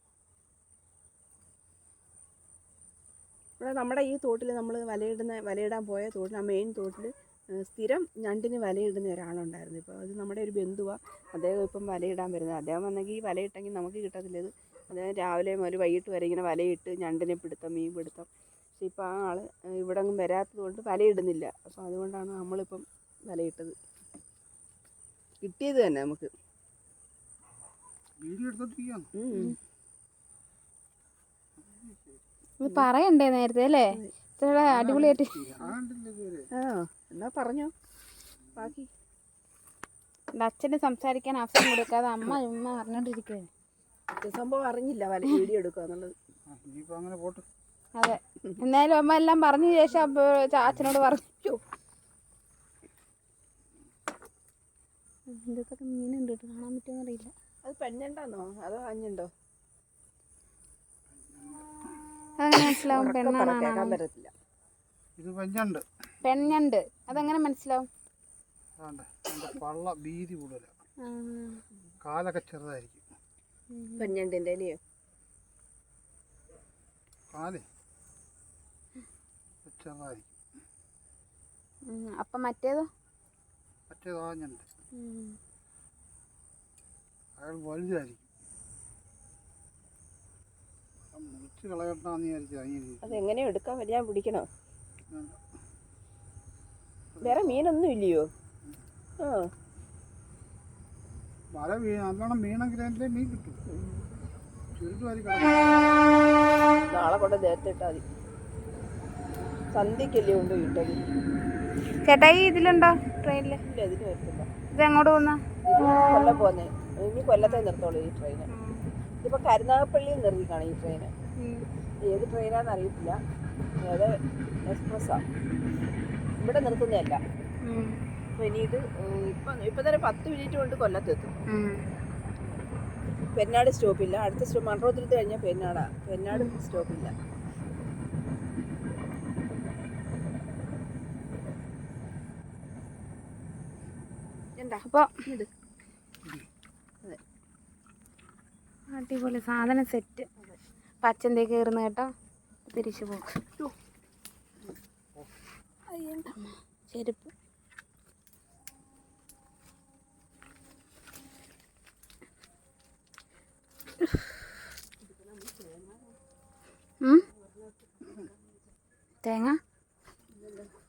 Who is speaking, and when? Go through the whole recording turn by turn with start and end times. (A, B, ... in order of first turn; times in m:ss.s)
0:03.6-0:23.7 A
0:25.4-0:26.3 A
0:28.2-0:29.1 B
0:29.1-0:29.5 A
0:31.7-0:32.2 B
0:32.6-0:35.5 C
0:34.6-0:36.5 B
0:36.5-0:37.7 A
0:38.5-0:38.9 A
0:40.3-0:43.5 C
0:44.1-0:46.1 A
0:46.5-0:47.4 B
0:48.0-0:51.4 C
0:55.3-0:57.3 C
0:57.6-0:59.3 A
1:01.1-1:01.7 B
1:02.4-1:04.0 C
1:02.7-1:04.3 A
1:05.2-1:05.8 B
1:06.2-1:07.9 C
1:08.8-1:10.7 B
1:11.0-1:11.6 C
1:12.0-1:13.0 B
1:13.7-1:14.1 C
1:14.0-1:14.8 A
1:17.3-1:17.6 B
1:19.6-1:20.3 B
1:21.9-1:22.9 C
1:23.9-1:24.7 B
1:24.9-1:25.4 C
1:27.4-1:28.2 B
1:31.1-1:33.2 B
1:33.0-1:34.5 A
1:35.1-1:35.4 B
1:37.2-1:38.3 A
1:39.2-1:39.5 A
1:41.5-1:43.6 B
1:43.7-1:44.1 A
1:44.7-1:45.8 B
1:46.9-1:48.0 A
1:49.7-1:51.0 A
1:52.0-1:53.6 C
1:53.6-1:54.5 A
1:54.7-1:55.4 C
1:55.7-1:58.5 A
1:58.5-1:58.8 C
1:59.2-2:01.1 A
2:01.4-2:01.6 C
2:02.0-2:03.2 A
2:03.8-2:05.2 A
2:06.4-2:07.2 A
2:07.6-2:08.0 C
2:08.3-2:11.4 A
2:11.5-2:11.8 C
2:13.3-2:17.1 A
2:24.6-2:25.5 A
2:28.9-2:30.3 C
2:31.0-2:32.1 C
2:32.6-2:33.4 C
2:35.9-2:36.3 A
2:36.4-2:37.3 C
2:44.0-2:44.2 C
2:45.0-2:46.2 A
2:47.3-2:48.5 A
2:49.2-2:49.6 C
2:50.3-2:50.7 A